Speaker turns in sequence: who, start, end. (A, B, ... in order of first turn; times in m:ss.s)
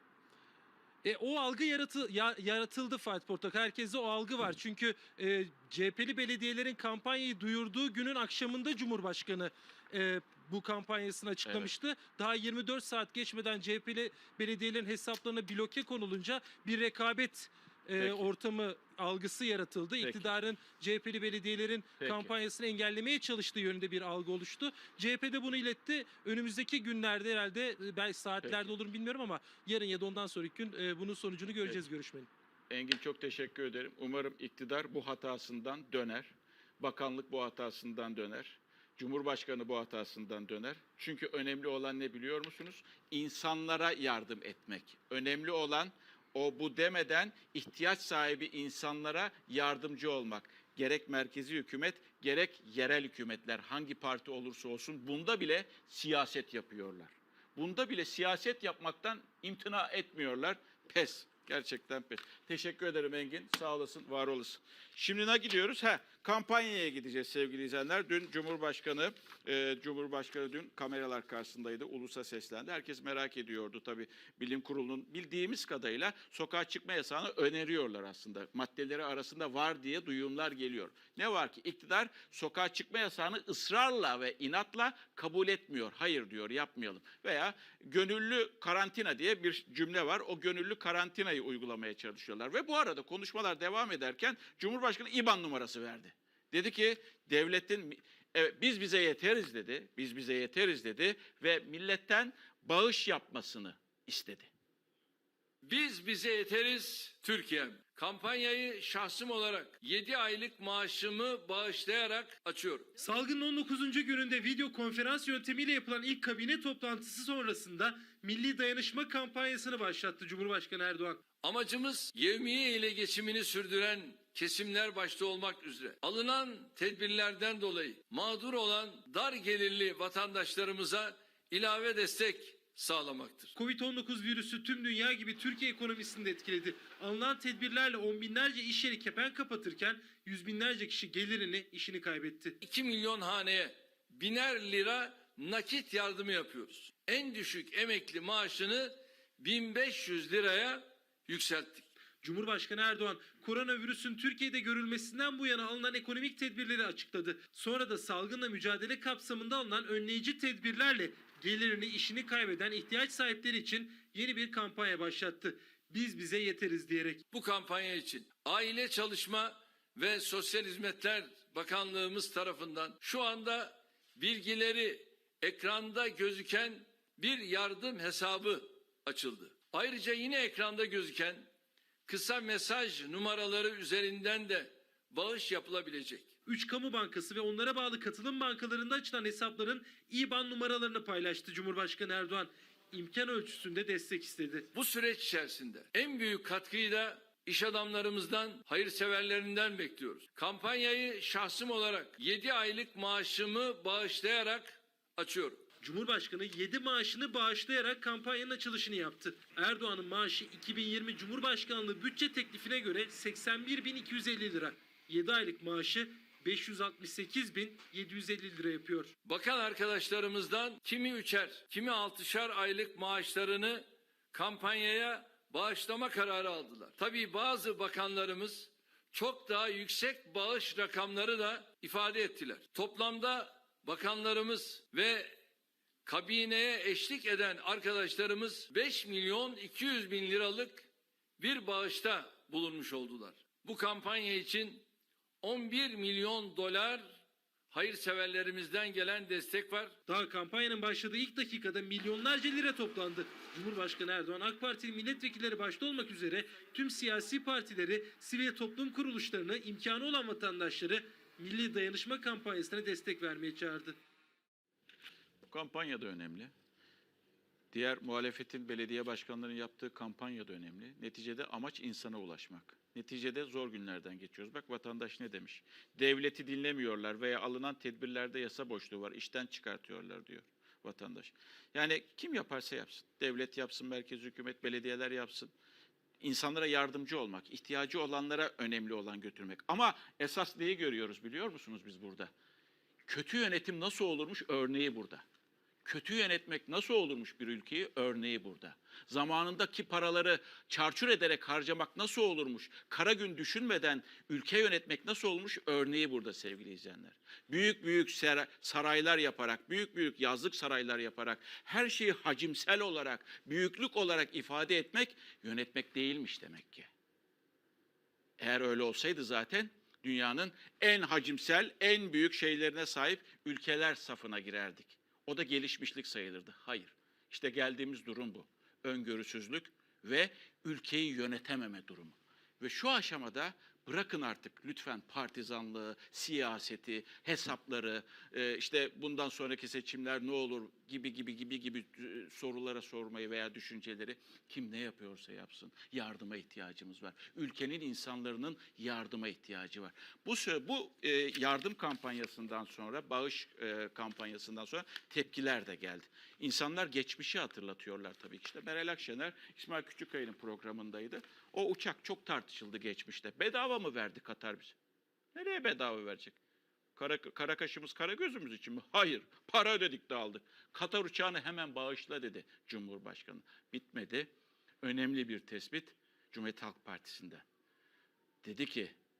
0:01.0-0:32.3 A
0:11.4-0:11.7 B
0:18.0-0:18.3 B
0:20.0-0:20.4 B
0:22.0-0:22.3 B
0:28.4-0:28.7 B
0:32.7-1:44.5 B
1:45.6-1:52.9 C
1:53.0-2:01.2 A
2:01.4-2:13.5 C
2:13.6-2:22.6 A
2:22.6-2:31.8 C
2:32.2-2:47.2 A
2:47.3-3:01.5 C
3:02.0-3:06.3 C
3:06.4-3:14.7 A
3:14.7-3:25.6 C
3:25.8-3:39.1 A
3:39.2-3:55.3 C
3:56.0-4:00.8 C
4:01.4-4:04.8 C
4:05.4-4:07.2 C
4:07.7-4:09.9 C
4:10.1-4:24.0 A
4:25.5-4:26.5 B
4:27.7-4:45.5 B
4:46.2-4:52.3 B
4:53.0-4:55.2 B
4:55.8-5:16.9 B
5:18.4-6:04.8 B
6:05.3-6:06.4 B
6:06.9-6:14.3 B
6:14.8-6:17.4 B
6:18.4-6:18.9 B